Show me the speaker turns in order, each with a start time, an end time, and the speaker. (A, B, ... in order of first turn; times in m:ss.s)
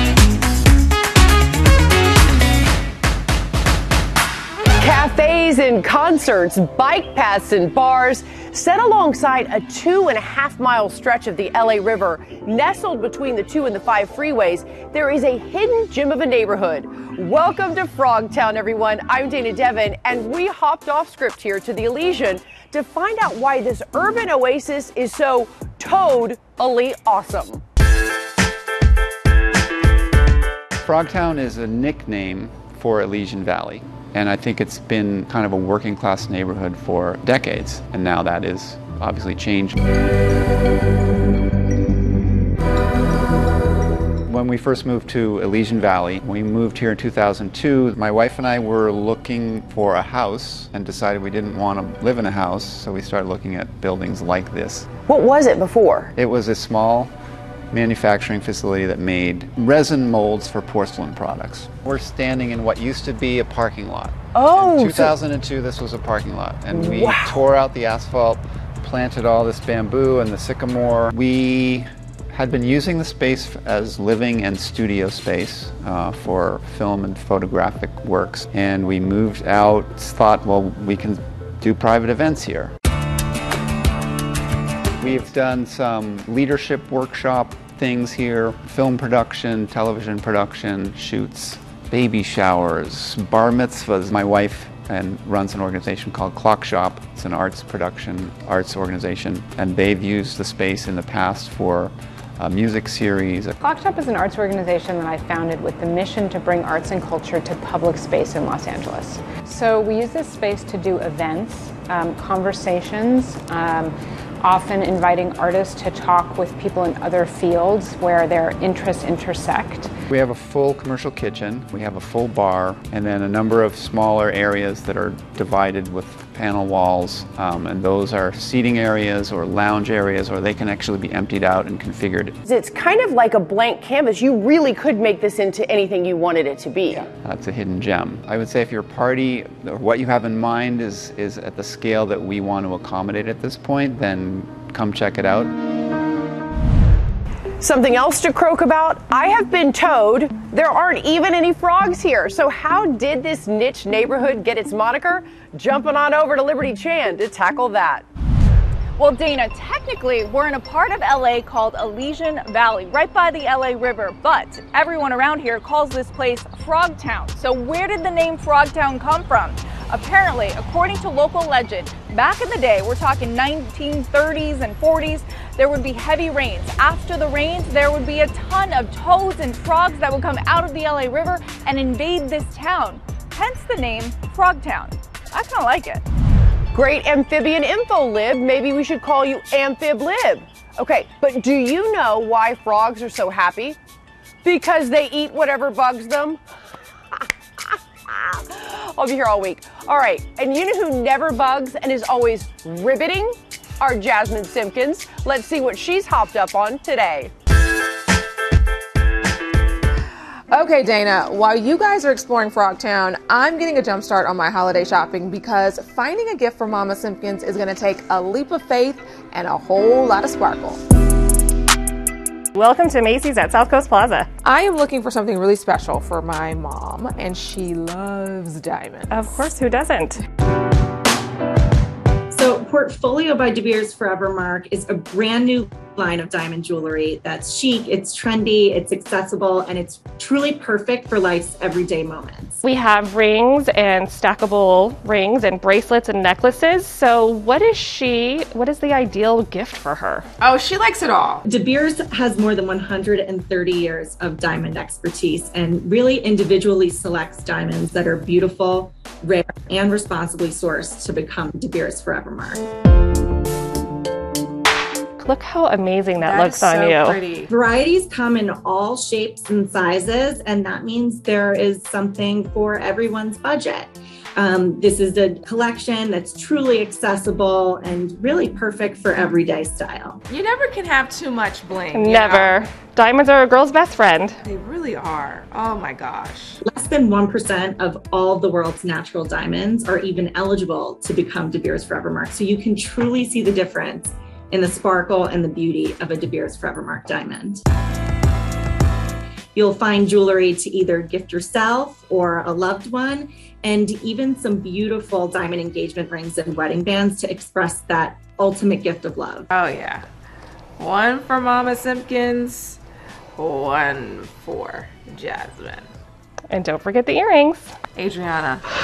0:04.8-0:27.6 A
0:30.8-0:39.8 B
0:44.2-0:54.9 B
0:55.1-0:56.1 A
0:56.2-0:57.1 B
0:57.7-1:22.7 B
1:04.3-1:05.1 A
1:06.7-1:07.4 A
1:25.0-1:43.6 B
1:43.6-1:59.9 C
2:00.1-2:12.4 B
2:12.4-2:17.1 A
2:17.2-2:25.5 B
2:27.6-2:38.0 A
2:39.0-3:06.0 D
3:06.7-3:13.8 A
3:14.4-3:16.4 A
3:17.2-3:27.3 A
3:30.5-3:40.8 E
3:42.5-3:44.3 F
3:44.4-3:49.5 E
3:49.1-3:50.2 F
3:52.3-4:02.6 G
4:02.6-4:10.2 F
4:10.4-4:11.4 E
4:11.4-4:22.6 G
4:25.2-4:27.3 F
4:26.2-4:27.5 E
4:27.5-4:40.2 G
4:40.3-4:42.6 E
4:41.9-4:44.4 F
4:44.4-4:46.6 E
4:46.6-4:57.6 G
4:59.6-5:09.5 G
5:09.5-5:10.1 E
5:10.8-5:12.8 E
5:13.3-5:15.9 E
5:16.5-5:17.7 F
5:18.0-5:18.6 E